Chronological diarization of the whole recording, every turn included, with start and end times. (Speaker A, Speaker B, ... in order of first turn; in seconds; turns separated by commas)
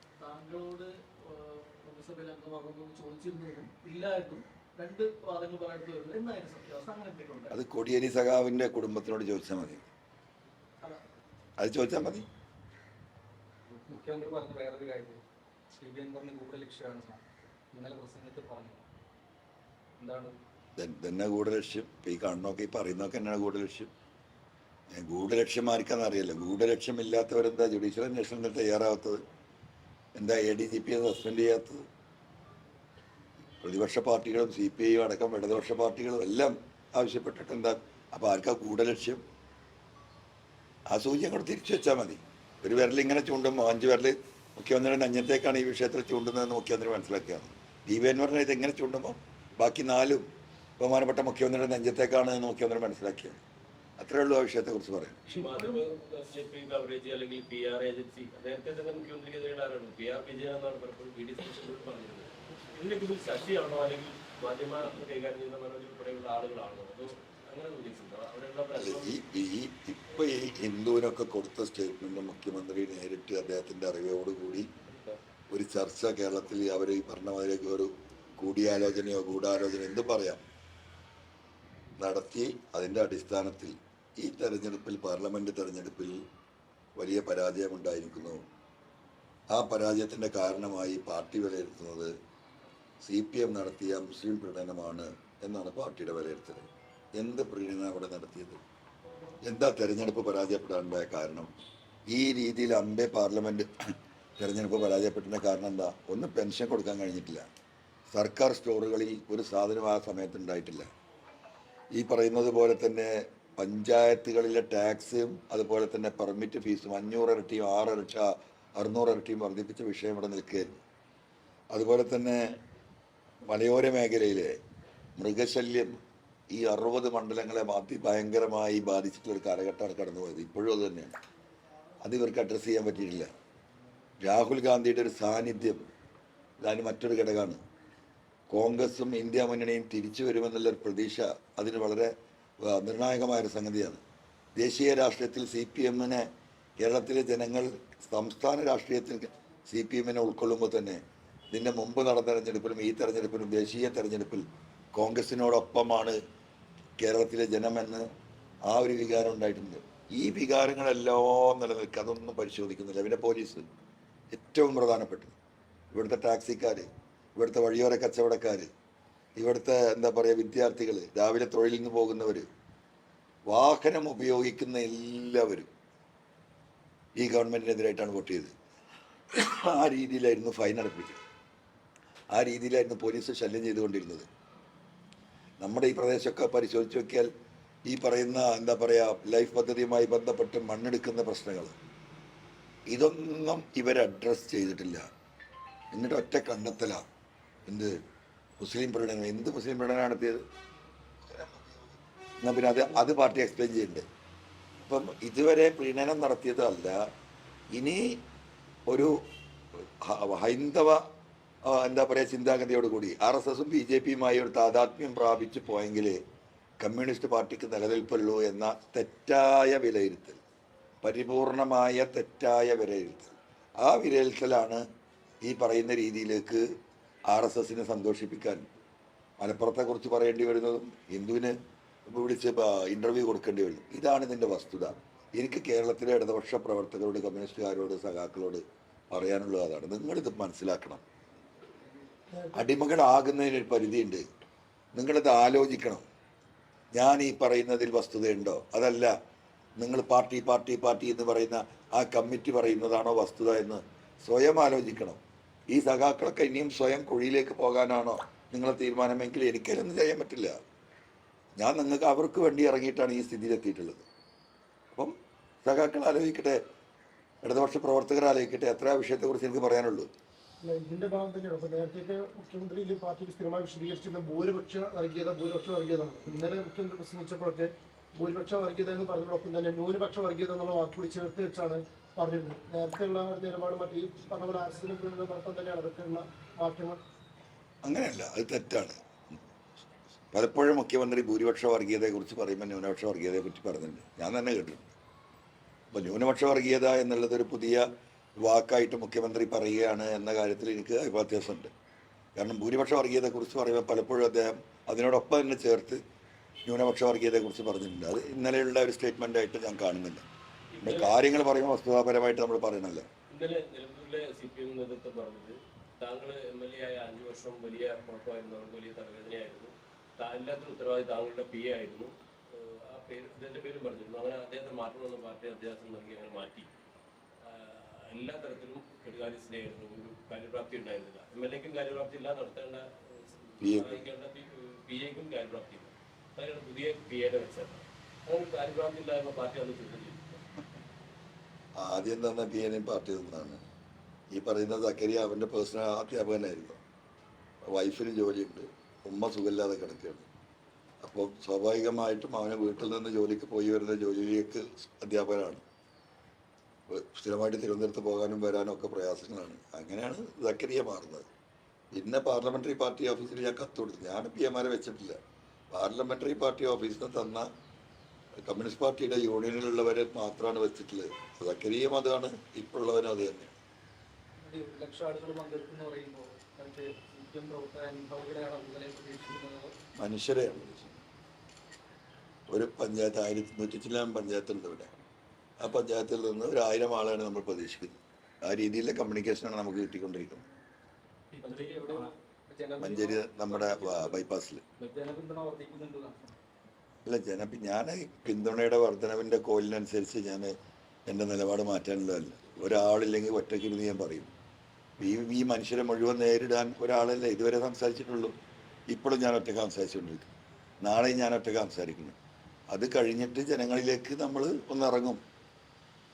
Speaker A: 0.2-7.5, Speaker B: 7.5-9.9, Speaker B: 11.6-12.2, Speaker C: 13.7-15.2, Speaker C: 15.7-17.2, Speaker C: 17.7-18.8, Speaker C: 20.0-20.4, Speaker B: 20.8-23.9, Speaker B: 24.9-29.2, Speaker B: 30.2-31.8, Speaker B: 33.6-39.2, Speaker B: 40.9-50.2, Speaker B: 50.8-53.4, Speaker B: 54.0-55.2, Speaker D: 55.3-69.1, Speaker A: 55.3-55.8, Speaker B: 68.8-74.7, Speaker D: 74.9-75.2, Speaker B: 75.5-80.4, Speaker B: 82.0-86.2, Speaker B: 87.0-88.4, Speaker B: 89.5-92.1, Speaker B: 93.0-98.6, Speaker B: 99.4-101.5, Speaker B: 102.1-103.7, Speaker B: 104.4-107.4, Speaker B: 108.1-110.9, Speaker B: 112.0-120.7, Speaker B: 121.7-122.4, Speaker B: 123.5-124.6, Speaker B: 125.2-126.0, Speaker B: 126.5-131.2, Speaker B: 132.0-133.3, Speaker B: 134.2-135.8, Speaker B: 136.6-137.6, Speaker B: 138.5-142.1, Speaker B: 142.6-144.0, Speaker B: 144.6-146.3, Speaker B: 146.8-151.0, Speaker B: 151.5-156.2, Speaker B: 157.0-158.1, Speaker B: 158.7-163.6, Speaker B: 164.3-165.3, Speaker B: 165.9-168.7, Speaker B: 169.4-172.5, Speaker B: 173.5-175.7, Speaker B: 177.2-178.5, Speaker B: 179.3-181.2, Speaker B: 182.3-184.3, Speaker B: 185.6-187.3, Speaker B: 187.9-191.8, Speaker B: 192.9-195.0, Speaker B: 195.9-197.0, Speaker B: 197.7-197.9, Speaker B: 198.6-200.4, Speaker B: 201.3-201.7, Speaker B: 202.4-204.1, Speaker B: 204.8-207.0, Speaker B: 207.7-208.2, Speaker B: 209.8-211.0, Speaker B: 211.7-216.2, Speaker B: 216.8-220.4, Speaker B: 221.0-224.8, Speaker B: 225.4-226.6, Speaker B: 227.3-228.6, Speaker B: 229.4-231.5, Speaker B: 232.1-241.0, Speaker B: 242.5-244.2, Speaker B: 244.9-246.0, Speaker B: 246.9-249.1, Speaker B: 249.8-255.2, Speaker B: 255.7-260.6, Speaker B: 261.6-264.1, Speaker B: 265.6-266.6, Speaker B: 267.4-270.1, Speaker E: 270.6-287.0, Speaker B: 287.8-289.0, Speaker B: 290.3-294.9, Speaker B: 295.9-297.9, Speaker B: 298.4-301.7, Speaker B: 302.4-306.0, Speaker B: 306.7-310.2, Speaker D: 310.7-311.2, Speaker B: 310.8-313.1, Speaker D: 313.3-326.7, Speaker D: 327.4-340.4, Speaker B: 333.6-334.1, Speaker B: 341.8-343.6, Speaker B: 344.3-346.8, Speaker B: 347.7-350.3, Speaker B: 351.0-355.6, Speaker B: 356.9-361.3, Speaker B: 361.9-365.2, Speaker B: 365.7-367.5, Speaker B: 368.5-373.6, Speaker C: 374.4-379.7, Speaker B: 380.0-381.0, Speaker B: 382.5-384.9, Speaker B: 385.6-390.4, Speaker C: 391.3-394.2, Speaker D: 391.4-392.1, Speaker B: 392.8-394.6, Speaker C: 394.8-396.3, Speaker B: 397.1-400.5, Speaker B: 401.1-404.3, Speaker B: 405.0-408.3, Speaker B: 408.9-412.2, Speaker B: 412.7-415.2